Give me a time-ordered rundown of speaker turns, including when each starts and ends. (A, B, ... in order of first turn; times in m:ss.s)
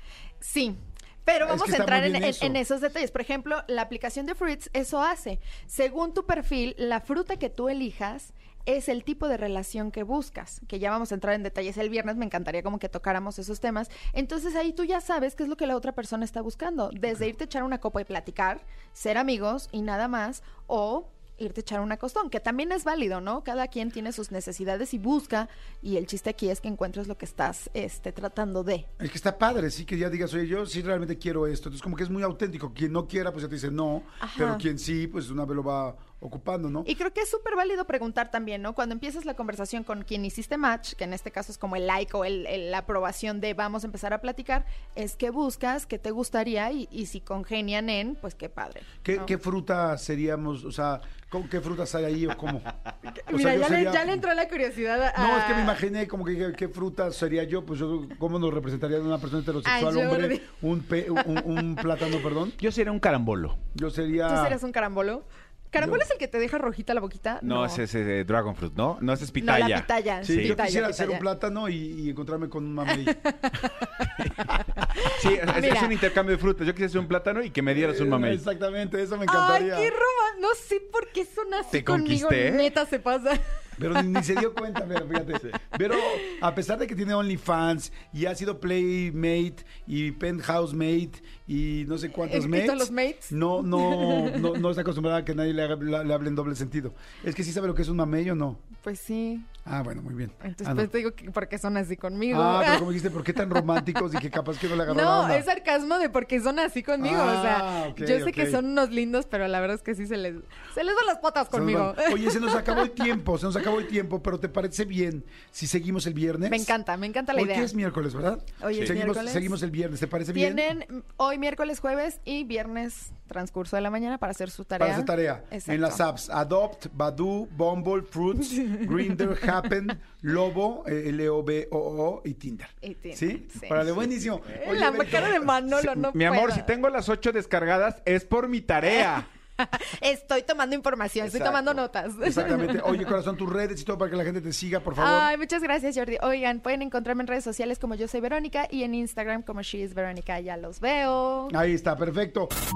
0:00.4-0:28.9 A
0:01.4-0:02.6 B
0:29.0-0:36.9 B
0:34.2-0:34.6 A
0:36.8-0:49.3 A
0:49.0-0:52.7 B
0:53.0-0:55.8 A
0:53.3-0:54.3 B
0:55.1-1:02.6 B
0:59.6-1:00.5 A
1:01.1-1:02.2 A
1:02.6-1:03.6 C
1:03.7-1:04.6 B
1:04.2-1:07.8 A
1:05.8-1:06.0 B
1:07.4-1:10.6 C
1:09.4-1:11.2 A
1:10.2-1:13.2 B
1:12.8-1:16.0 A
1:14.0-1:18.4 C
1:17.7-1:19.9 B
1:19.2-1:24.2 A
1:21.7-1:22.7 C
1:23.8-1:38.6 B
1:25.9-1:26.4 A
1:32.2-1:34.6 A
1:38.8-1:39.5 A
1:39.6-1:40.9 B
1:40.4-1:43.8 A
1:42.3-1:45.5 B
1:44.8-1:53.2 A
1:47.0-1:48.6 B
1:51.5-1:56.7 B
1:56.4-1:57.7 A
1:57.3-2:00.7 B
1:58.6-1:59.6 A
1:58.7-1:59.0 C
2:00.3-2:06.0 A
2:04.8-2:15.5 B
2:08.8-2:09.2 A
2:12.8-2:13.8 A
2:14.4-2:16.7 A
2:15.7-2:19.3 C
2:18.9-2:23.1 A
2:21.2-2:25.3 B
2:25.0-2:31.5 A
2:31.5-2:32.5 B